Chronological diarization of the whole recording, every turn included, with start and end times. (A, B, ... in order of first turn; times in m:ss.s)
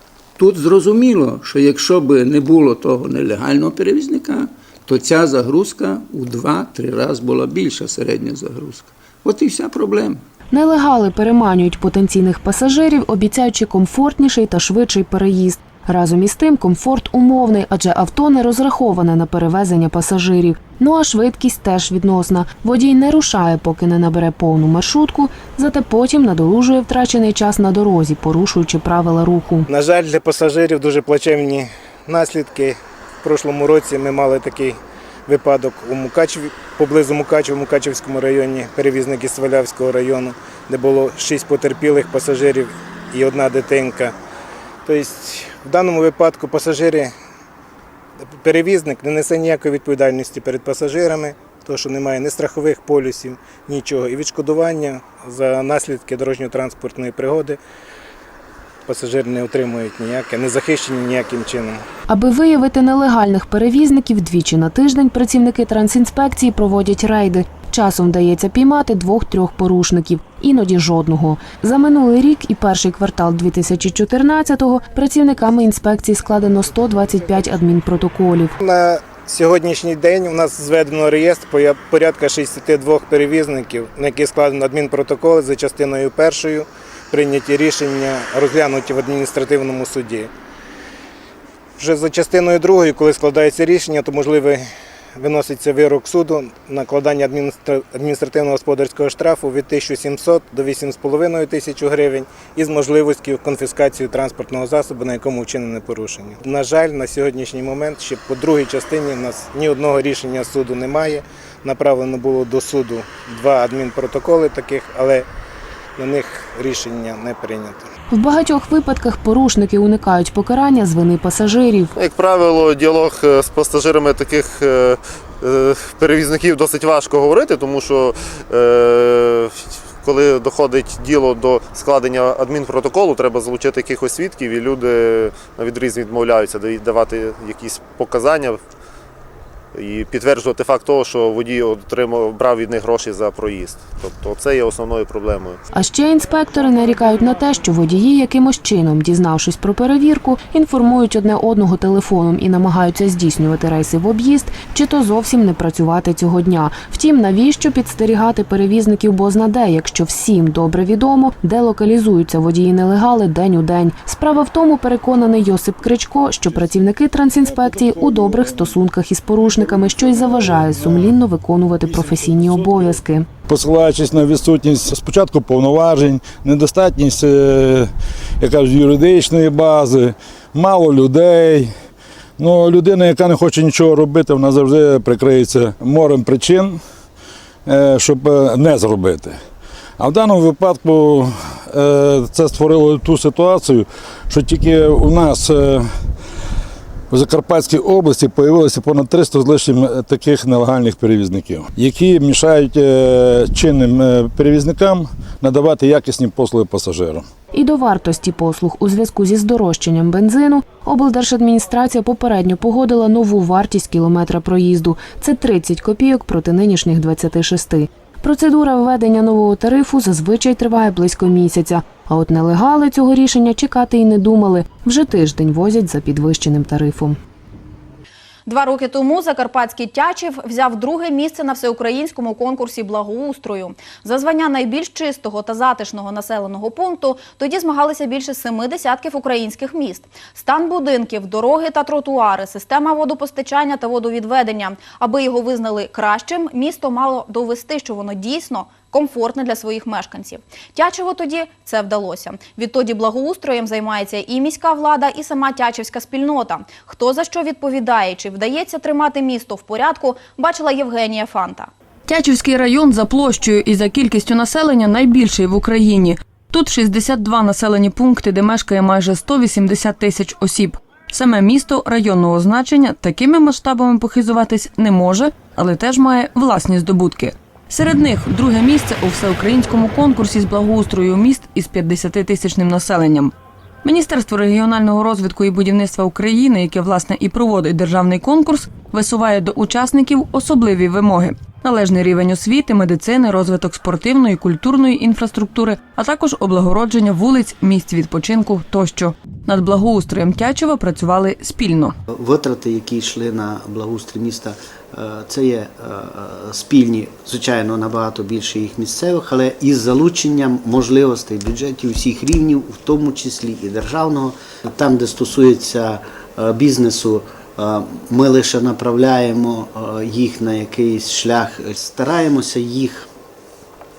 0:00.4-0:10.2 A
0:10.5-0:29.7 B
0:29.7-0:44.1 C
0:44.8-0:47.1 C
0:48.3-0:57.6 C
0:58.8-1:01.8 C
1:02.1-1:18.5 B
1:18.6-1:30.3 C
1:31.8-1:34.6 C
1:35.2-1:55.3 C
1:56.0-1:57.8 C
1:58.1-2:01.9 B
2:01.9-2:18.6 D
2:19.7-2:25.6 D
2:25.7-2:53.2 B
2:53.5-2:57.9 E
2:58.4-3:01.7 E
3:02.4-3:06.8 E
3:07.6-3:09.4 E
3:10.0-3:15.9 E
3:17.1-3:27.2 E
3:27.5-3:47.2 B
3:48.5-4:21.7 F
4:22.1-4:43.3 G
4:43.8-5:01.9 G
5:02.1-5:23.1 H